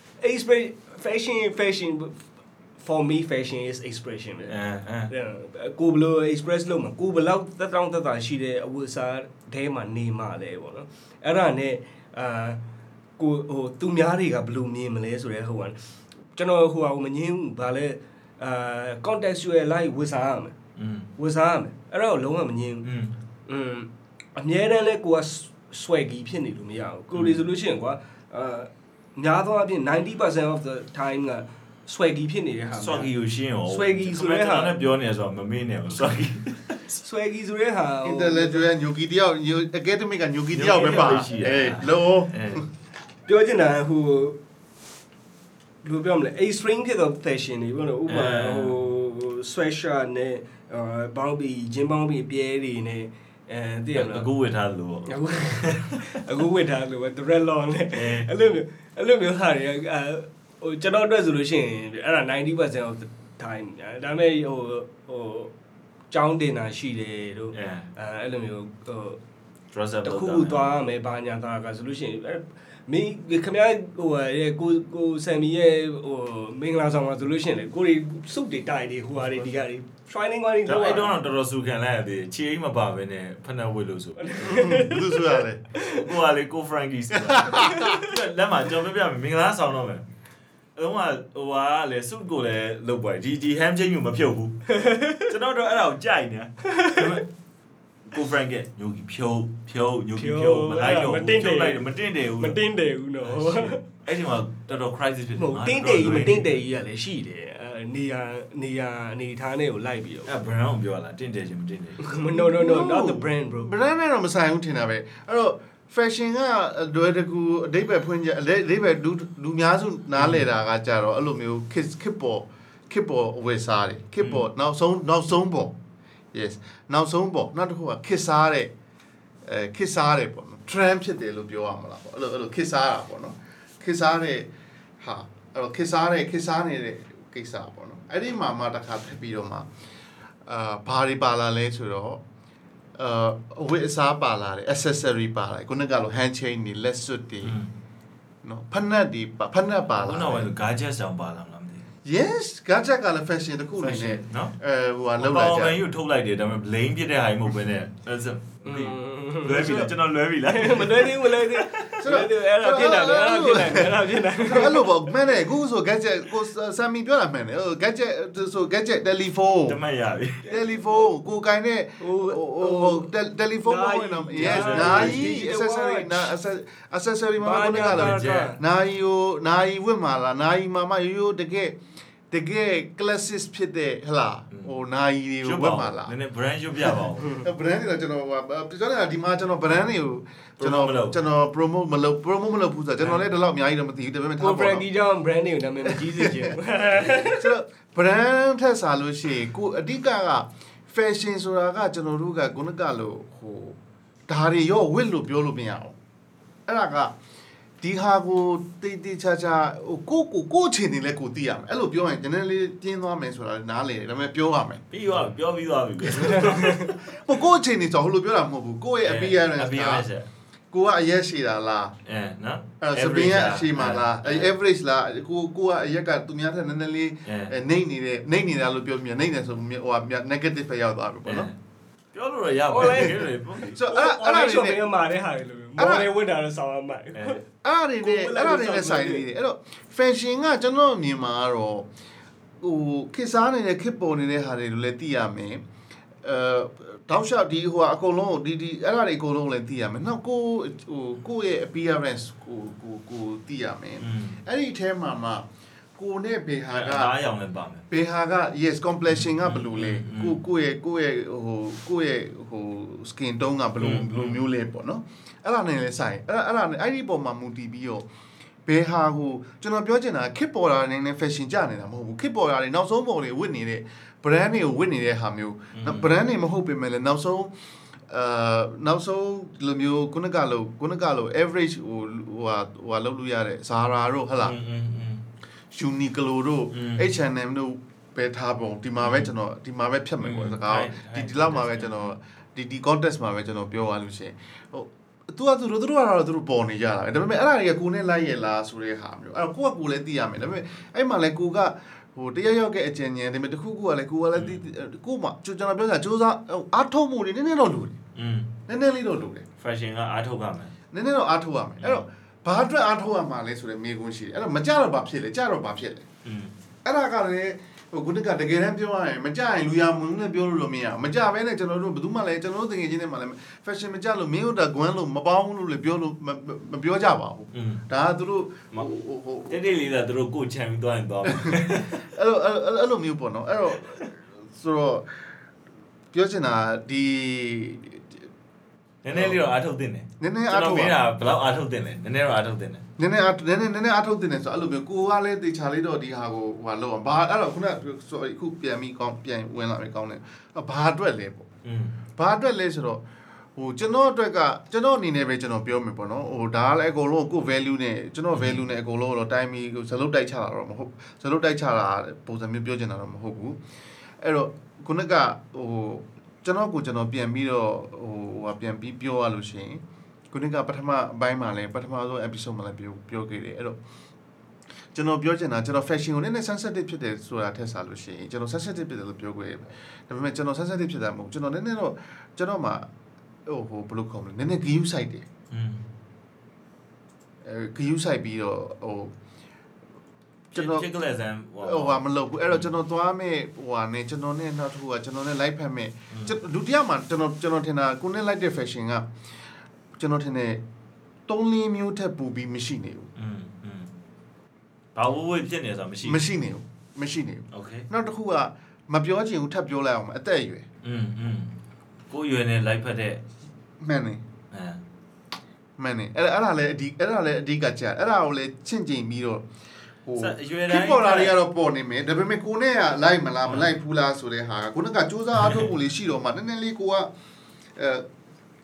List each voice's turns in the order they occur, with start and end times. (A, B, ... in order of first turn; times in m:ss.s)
0:00.2-0:02.2 A
0:02.8-0:04.6 A
0:04.5-0:05.1 B
0:05.1-0:12.6 A
0:13.2-0:15.8 A
0:16.3-0:20.5 A
0:20.8-0:21.1 B
0:21.2-0:22.9 A
0:22.8-0:23.1 B
0:23.5-0:33.1 A
0:32.8-0:36.9 B
0:33.7-0:34.8 A
0:37.0-0:38.6 A
0:38.0-0:42.6 C
0:40.5-0:42.6 B
0:43.3-0:44.4 A
0:45.8-0:54.3 A
0:48.1-0:48.8 B
0:53.9-0:56.1 B
0:55.1-1:05.5 A
0:57.9-0:58.3 B
1:06.1-1:09.2 A
1:07.5-1:07.9 B
1:09.7-1:10.7 B
1:10.0-1:21.1 A
1:20.6-1:24.5 B
1:24.2-1:26.0 A
1:24.4-1:25.6 C
1:25.8-1:30.0 B
1:27.2-1:27.9 C
1:30.8-1:34.6 B
1:34.7-1:35.3 A
1:35.3-1:37.2 B
1:36.7-1:37.0 A
1:38.1-1:42.6 B
1:40.2-1:41.8 A
1:42.4-1:43.8 A
1:43.2-1:46.6 B
1:45.4-1:50.3 A
1:50.2-1:52.1 B
1:52.0-1:53.7 A
1:52.3-2:05.7 C
2:00.2-2:00.4 B
2:06.3-2:08.7 C
2:09.4-2:14.5 C
2:15.0-2:19.7 C
2:20.4-2:22.2 C
2:23.0-2:27.6 C
2:27.4-2:27.7 B
2:28.4-2:30.5 C
2:29.9-2:31.8 B
2:32.0-2:35.8 C
2:33.8-2:34.5 B
2:35.2-2:42.0 B
2:38.6-2:39.8 A
2:39.5-2:39.9 C
2:40.5-2:45.1 A
2:42.0-2:49.8 C
2:49.7-2:50.4 B
2:50.4-2:51.0 A
2:50.4-3:01.8 C
2:52.0-2:53.1 A
2:53.6-2:56.3 A
2:54.4-2:55.3 B
2:57.4-2:58.6 A
2:57.9-2:58.4 B
3:02.3-3:06.1 C
3:05.4-3:07.4 B
3:07.4-3:14.8 C
3:10.6-3:11.2 B
3:14.4-3:17.5 A
3:15.8-3:23.8 C
3:24.3-3:26.0 C
3:26.7-3:27.2 C
3:27.8-3:34.8 C
3:34.9-3:37.0 B
3:36.1-3:40.0 C
3:39.0-3:40.3 B
3:40.7-3:41.9 C
3:42.0-3:44.5 B
3:42.8-3:51.5 C
3:47.2-3:47.5 B
3:51.2-3:51.5 B
3:52.1-3:53.8 B
3:52.7-3:57.4 A
3:53.7-3:54.8 C
3:55.8-3:56.1 C
3:57.1-3:57.4 B
3:57.6-4:01.9 C
3:58.0-3:59.2 A
4:02.6-4:05.6 C
4:06.2-4:17.1 C
4:14.0-4:14.4 B
4:16.7-4:17.8 B
4:17.9-4:28.0 C
4:19.2-4:20.4 B
4:23.8-4:24.4 B
4:28.6-4:37.5 C
4:35.8-4:36.1 B
4:38.1-4:44.6 C
4:44.4-4:45.2 B
4:45.7-5:08.0 C
4:46.7-4:47.1 B
4:49.0-4:49.3 B
4:50.2-4:52.1 B
5:04.3-5:04.6 B
5:08.1-5:08.5 B
5:08.7-5:09.4 C
5:09.6-5:10.7 B
5:10.9-5:16.0 C
5:16.2-5:16.5 B
5:16.8-5:29.6 C
5:27.5-5:27.8 B
5:29.5-5:32.0 B
5:31.2-5:35.1 C
5:36.1-5:38.2 C
5:39.0-5:42.8 B
5:39.1-5:39.4 C
5:40.2-5:41.0 C
5:43.0-5:51.5 C
5:51.6-5:51.9 B
5:52.1-5:53.0 C
5:53.6-6:03.6 C
5:58.3-5:58.6 B
6:04.2-6:13.8 C
6:14.9-6:22.8 C
6:23.4-6:25.2 C
6:25.5-6:25.8 B
6:27.4-6:29.1 C
6:30.5-6:32.7 B
6:30.5-6:30.8 C
6:31.6-6:39.1 C
6:40.0-6:40.6 C
6:41.3-6:43.1 C
6:43.2-6:43.9 B
6:44.9-6:46.2 B
6:46.0-6:50.6 C
6:47.5-6:47.8 B
6:50.8-6:51.5 B
6:52.1-6:53.2 B
6:53.8-6:54.2 C
6:54.5-6:54.8 B
6:55.8-6:59.4 C
7:00.0-7:07.1 C
7:00.2-7:01.4 B
7:05.4-7:05.7 B
7:07.8-7:08.0 C